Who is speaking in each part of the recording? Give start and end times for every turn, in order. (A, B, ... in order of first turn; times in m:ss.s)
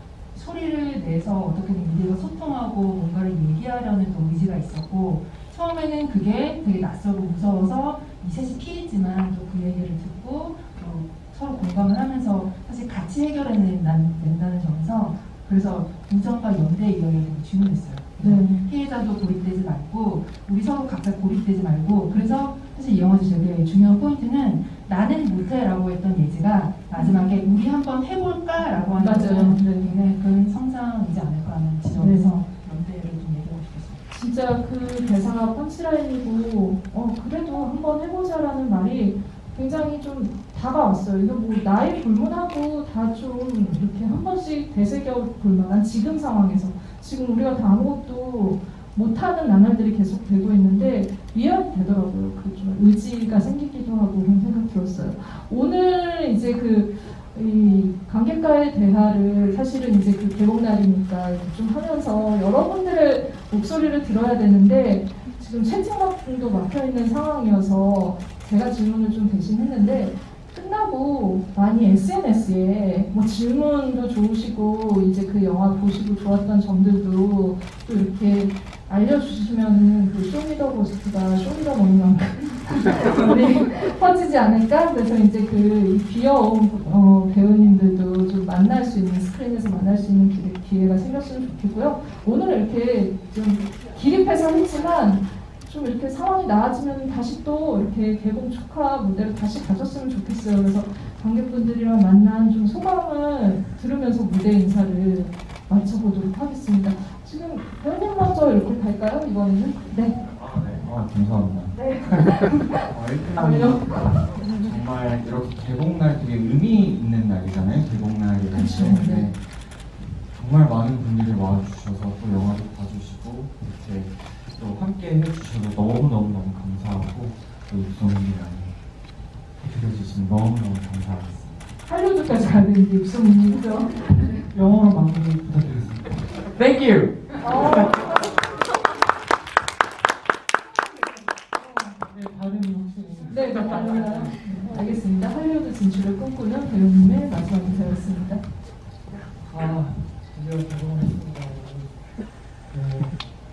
0:00.3-0:34.0 A
0:18.2-0:18.6 B
0:27.0-0:27.3 B
0:28.6-0:29.9 B
0:32.0-0:32.4 B
0:34.1-1:50.2 B
1:50.2-1:59.4 C
1:51.7-1:52.8 B
1:53.4-1:54.4 B
1:58.5-1:59.3 B
2:00.3-2:08.7 C
2:09.6-2:11.7 C
2:11.9-2:14.4 B
2:14.5-2:16.0 D
2:16.5-2:18.1 C
2:17.4-2:18.0 B
2:21.9-2:24.9 D
2:23.3-2:28.4 B
2:29.4-2:32.0 D
2:32.7-2:33.2 D